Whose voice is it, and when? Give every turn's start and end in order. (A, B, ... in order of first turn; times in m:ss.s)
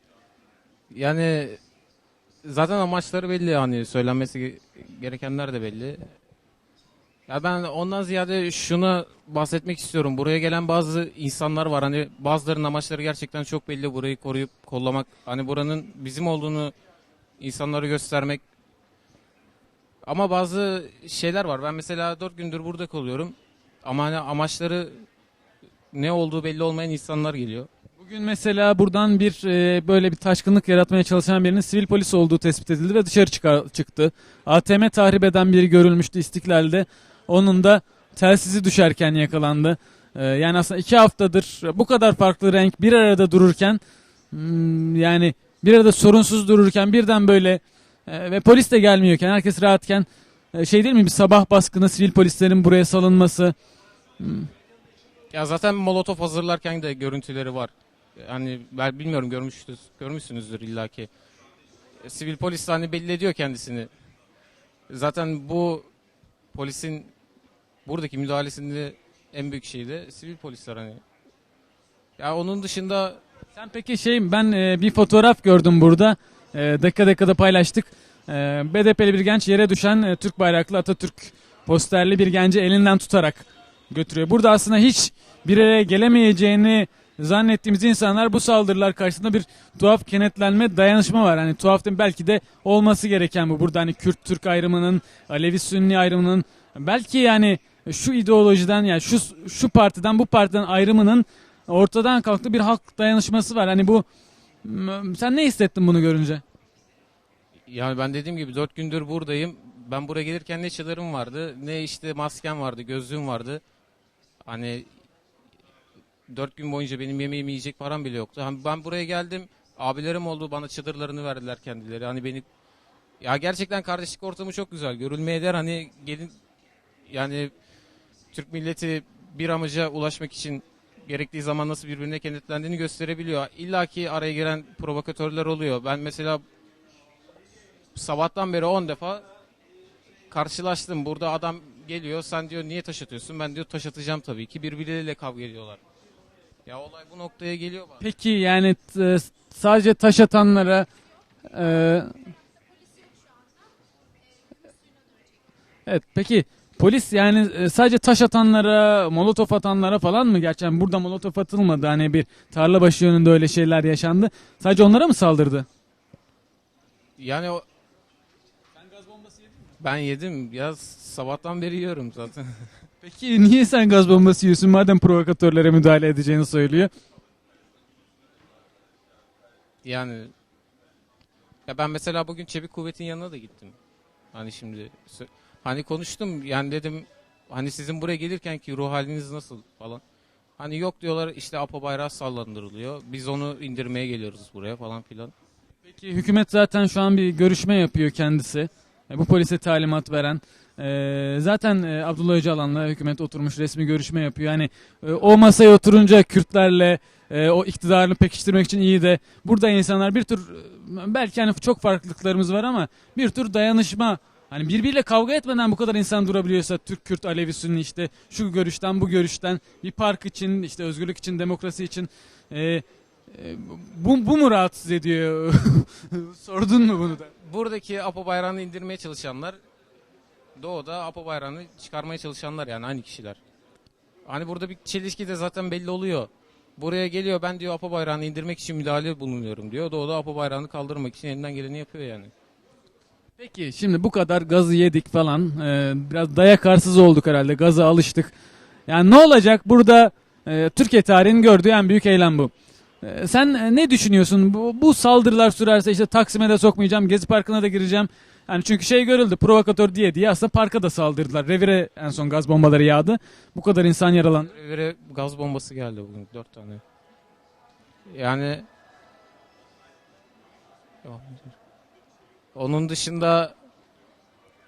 0:00.9-0:01.6 A
0:02.4-0:06.1 A
0:07.3-0:16.7 A
0:17.4-0:18.4 A
0:20.0-0:25.0 A
0:25.9-0:27.7 A
0:28.0-0:43.8 B
0:44.3-0:53.5 B
0:54.2-0:54.5 B
0:55.3-1:01.1 A
1:02.0-1:03.9 A
1:04.9-1:05.9 A
1:06.5-1:07.1 A
1:07.8-1:11.0 A
1:12.2-1:13.2 A
1:13.5-1:44.0 B
1:44.6-1:46.4 B
1:47.7-1:53.6 A
1:54.4-1:54.9 A
1:56.3-2:02.4 A
2:03.2-2:06.3 A
2:07.1-2:07.5 A
2:08.3-2:16.4 A
2:17.9-2:19.2 A
2:20.3-2:25.8 A
2:26.6-2:28.0 A
2:28.0-2:30.9 B
2:31.5-2:32.1 B
2:35.9-2:45.7 B
2:47.2-2:47.6 A
2:49.0-2:49.3 B
2:49.8-2:52.7 A
2:53.0-2:56.9 B
2:59.8-3:00.3 A
3:01.7-3:03.8 A
3:04.3-3:10.0 A
3:10.6-3:15.3 A
3:15.8-3:47.3 B
3:47.4-3:49.6 A
3:50.6-3:53.4 A
3:54.2-4:02.3 A
4:03.4-4:08.3 B
4:08.9-4:24.5 B
4:24.5-4:26.8 A
4:28.1-4:28.7 A
4:31.0-4:31.5 A
4:32.5-4:33.6 A